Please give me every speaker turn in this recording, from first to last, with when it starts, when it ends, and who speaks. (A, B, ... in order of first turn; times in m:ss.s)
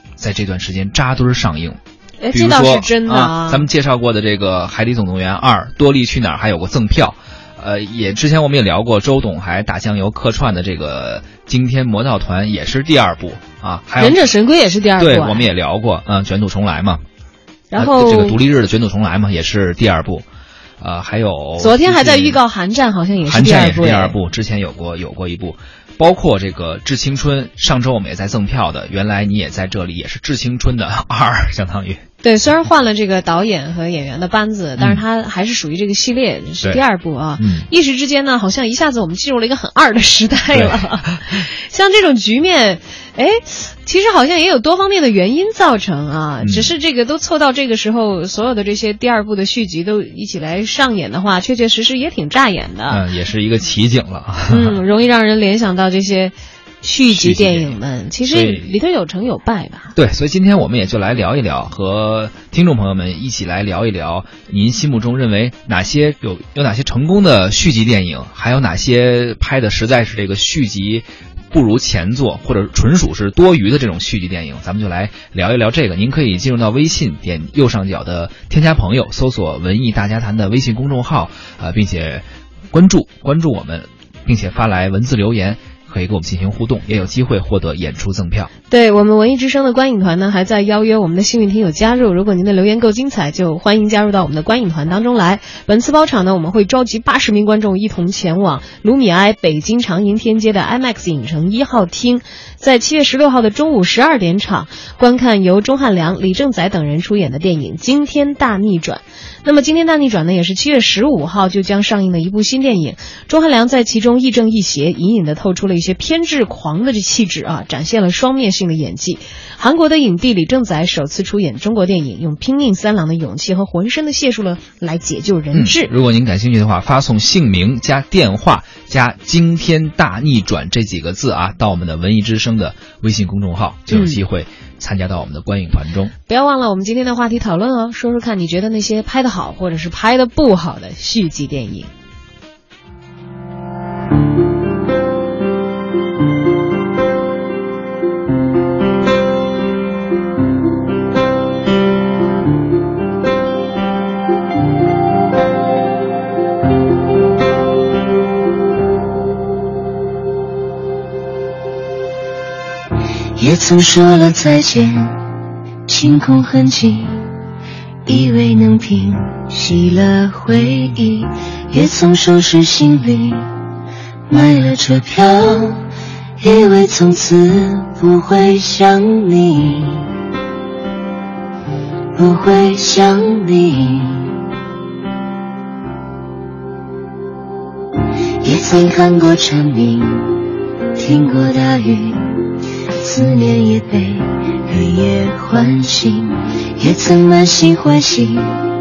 0:00.2-0:01.8 A
0:02.2-0:03.7 B
0:02.3-0:14.3 A
0:14.0-0:15.4 B
0:15.0-0:17.0 A
0:17.7-0:18.4 B
0:17.8-0:20.2 A
0:20.8-0:22.4 A
0:21.6-0:24.2 B
0:23.2-0:32.0 A
0:32.2-0:53.0 B
0:34.8-0:35.0 A
0:37.4-0:37.7 A
0:40.5-0:41.4 A
0:46.4-0:46.7 A
0:52.9-0:54.8 A
0:54.5-0:59.9 B
0:57.1-0:58.8 A
0:59.9-1:28.5 A
1:28.7-2:05.9 B
2:05.5-2:16.1 A
2:13.9-2:14.2 B
2:16.3-2:21.9 B
2:43.4-2:45.2 C
2:45.9-2:47.3 C
2:48.0-2:53.4 C
2:54.3-2:55.8 C
2:56.4-3:00.1 C
3:02.2-3:04.3 C
3:08.4-3:10.4 C
3:11.0-3:12.4 C
3:13.0-3:18.5 C